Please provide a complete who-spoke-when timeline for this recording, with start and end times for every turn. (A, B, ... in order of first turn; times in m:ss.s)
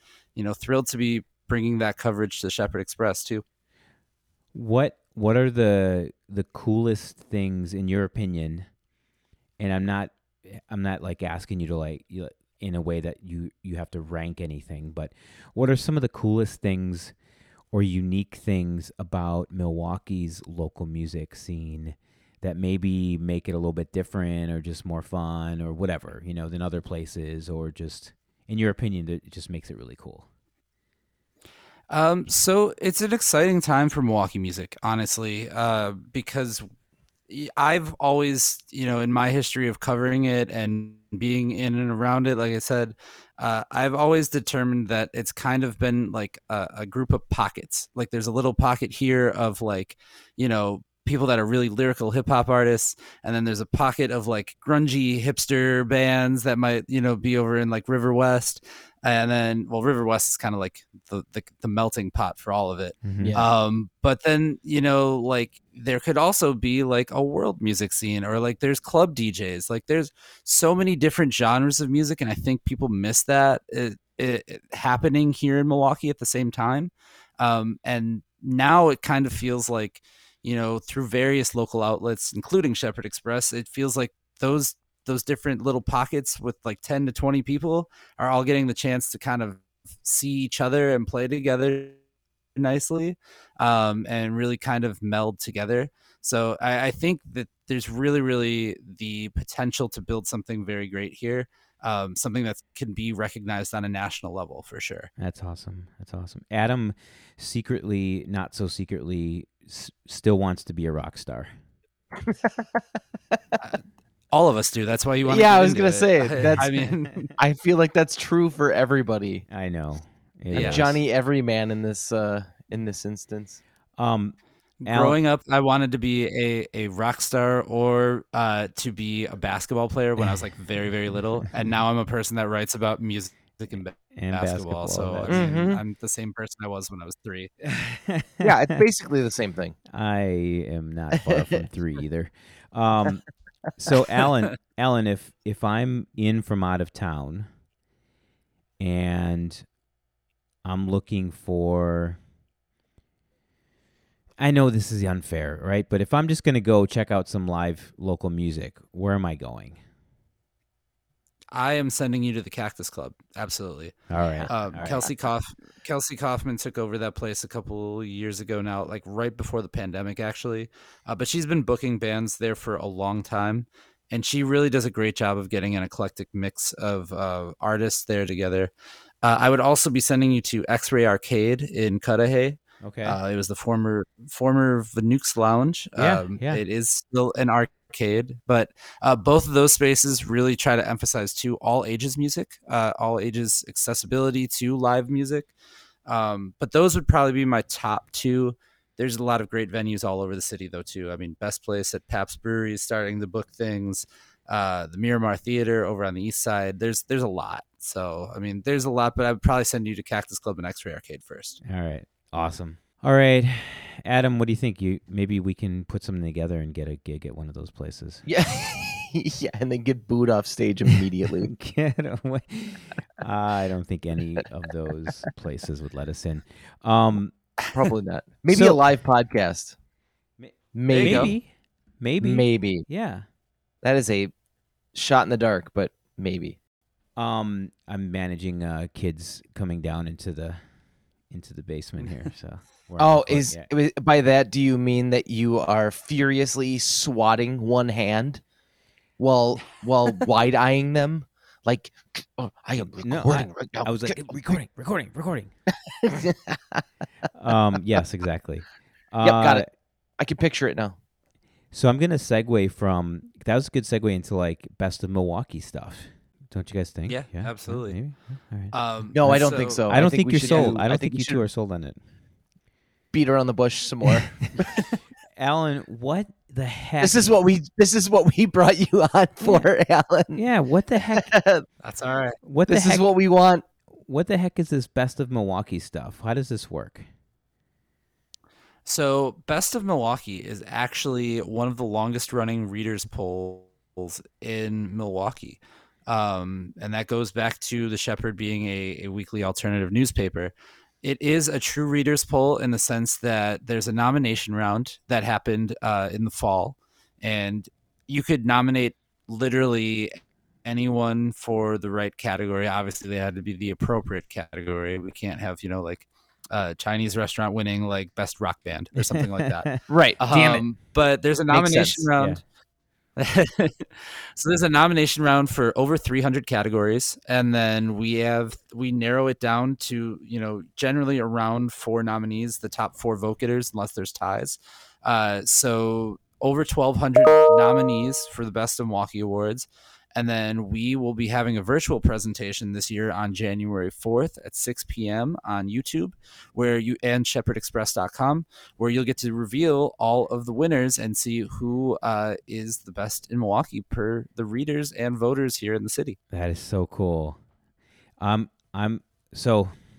0:00.3-0:03.4 A
0:04.5-0:08.7 B
0:09.6-0:17.1 B
0:17.7-0:30.2 B
0:31.9-0:36.6 A
0:37.3-1:32.0 A
1:03.0-1:03.4 B
1:03.2-1:03.5 C
1:32.6-1:45.1 A
1:45.2-1:51.5 B
1:52.2-1:52.8 C
1:53.3-1:53.6 C
1:54.3-1:57.3 A
1:55.2-1:56.8 C
1:56.4-1:56.6 B
1:57.4-1:59.4 C
1:59.5-2:01.0 B
2:00.5-2:03.6 C
2:00.5-2:00.9 A
2:04.0-2:05.2 B
2:04.8-2:17.5 A
2:14.1-2:15.5 B
2:15.3-2:15.8 C
2:17.8-2:18.5 B
2:18.4-2:19.8 C
2:19.9-2:23.2 B
2:21.2-2:21.6 C
2:23.8-2:27.5 B
2:28.8-2:29.6 B
2:30.6-2:32.2 B
2:34.4-2:39.8 B
2:41.5-2:58.7 A
2:44.1-2:45.1 B
2:59.2-3:15.5 A
3:02.8-3:03.2 B
3:06.0-3:06.6 B
3:16.0-3:31.6 A
3:31.6-3:38.2 B
3:38.2-3:41.5 C
3:41.5-3:47.3 B
3:47.7-3:49.7 C
3:48.5-3:48.8 B
3:50.4-3:53.2 B
3:50.7-3:51.4 C
3:50.9-3:51.3 A
3:52.2-3:52.8 C
3:53.8-3:54.3 C
3:54.9-3:56.6 C
3:57.2-4:00.6 B
4:01.3-4:03.7 B
4:03.0-4:08.4 C
4:09.2-4:14.6 C
4:13.0-4:15.5 B
4:15.9-4:16.8 C
4:17.3-4:19.7 B
4:19.2-4:19.6 C
4:20.2-4:21.0 C
4:21.7-4:32.0 B
4:27.1-4:28.0 A
4:28.7-4:29.8 A
4:29.1-4:31.4 C
4:30.4-4:30.8 A
4:33.1-4:34.8 C
4:35.4-4:37.3 B
4:37.0-4:40.4 C
4:40.3-4:41.3 B
4:41.1-4:41.6 C
4:41.8-4:42.4 A
4:42.4-4:43.1 B
4:42.7-4:43.6 C
4:43.9-4:47.1 B
4:48.8-5:22.4 A
5:19.0-5:19.8 B
5:19.9-5:20.6 C
5:21.5-5:22.1 C
5:23.2-5:56.2 A
5:56.3-5:57.4 B
5:58.2-5:59.8 B